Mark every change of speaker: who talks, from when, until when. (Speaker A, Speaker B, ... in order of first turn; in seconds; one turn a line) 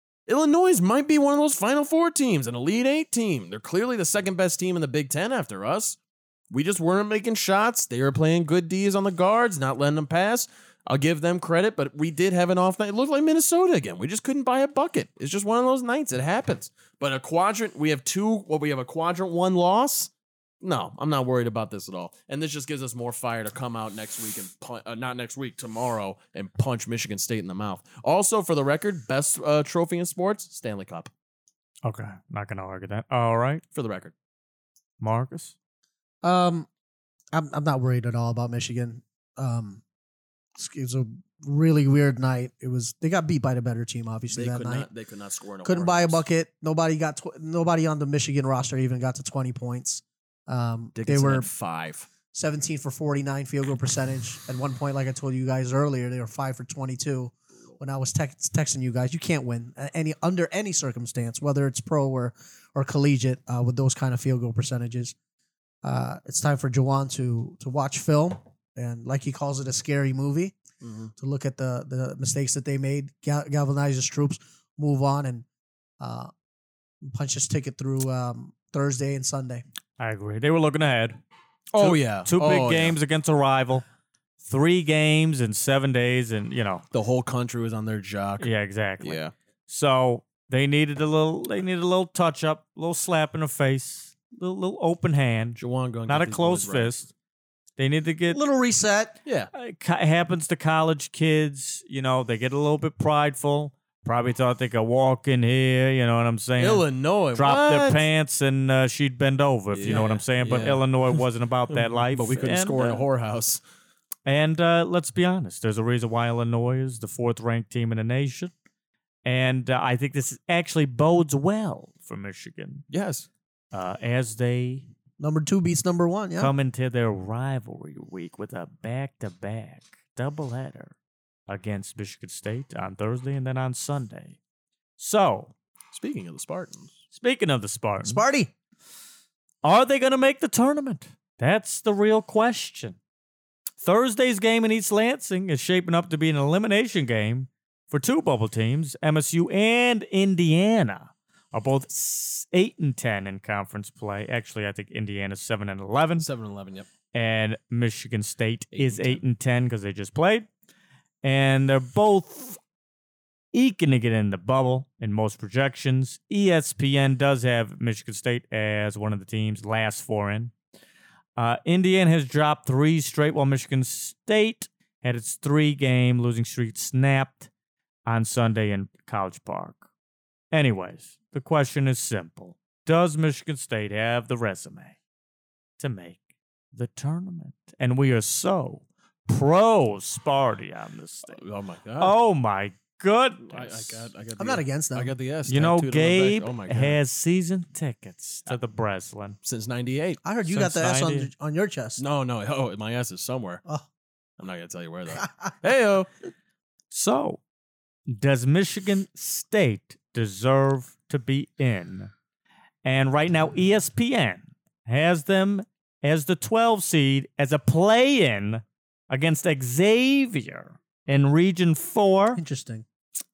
Speaker A: 0.3-6.0
Speaker A: 6.5-31.1
Speaker B: 31.9-33.6
Speaker A: 33.7-34.1
Speaker B: 35.0-35.5
Speaker C: 36.2-36.7
Speaker C: 37.3-39.8
Speaker C: 40.6-44.9
Speaker A: 44.3-46.2
Speaker C: 45.6-51.5
Speaker A: 51.0-52.1
Speaker C: 52.3-65.2
Speaker C: 65.8-70.6
Speaker A: 70.8-71.1
Speaker C: 71.2-75.5
Speaker C: 76.0-76.3
Speaker C: 77.0-79.6
Speaker B: 80.0-81.2
Speaker A: 81.7-83.0
Speaker B: 81.8-83.8
Speaker B: 84.4-86.8
Speaker A: 86.9-88.5
Speaker B: 88.4-97.1
Speaker A: 89.0-89.3
Speaker A: 95.6-96.9
Speaker B: 97.8-98.4
Speaker C: 98.3-99.2
Speaker A: 99.2-99.5
Speaker B: 99.5-113.0
Speaker A: 106.6-108.1
Speaker A: 109.7-111.2
Speaker A: 111.7-113.6
Speaker B: 114.3-118.5
Speaker B: 119.2-122.8
Speaker A: 122.9-123.3
Speaker B: 123.7-124.9
Speaker C: 125.2-126.5
Speaker B: 126.4-131.0
Speaker B: 131.5-134.4
Speaker B: 135.0-135.5
Speaker A: 135.9-137.0
Speaker B: 137.1-138.2
Speaker C: 138.0-138.5
Speaker B: 139.6-143.0
Speaker B: 143.8-156.3
Speaker A: 156.2-156.9
Speaker B: 157.1-160.5
Speaker A: 158.7-159.2
Speaker B: 161.2-162.6
Speaker B: 163.5-170.5
Speaker B: 171.4-177.5
Speaker B: 178.1-179.8
Speaker B: 180.5-185.0
Speaker B: 185.8-186.2
Speaker B: 186.7-191.4
Speaker A: 191.3-192.2
Speaker B: 192.0-194.1
Speaker A: 193.4-197.0
Speaker C: 194.4-195.1
Speaker B: 195.5-199.4
Speaker A: 199.4-200.2
Speaker C: 200.2-202.0
Speaker B: 200.5-201.3
Speaker A: 202.0-203.6
Speaker A: 204.4-206.1
Speaker B: 206.9-207.4
Speaker B: 208.1-212.1
Speaker B: 212.8-222.4
Speaker C: 222.3-222.8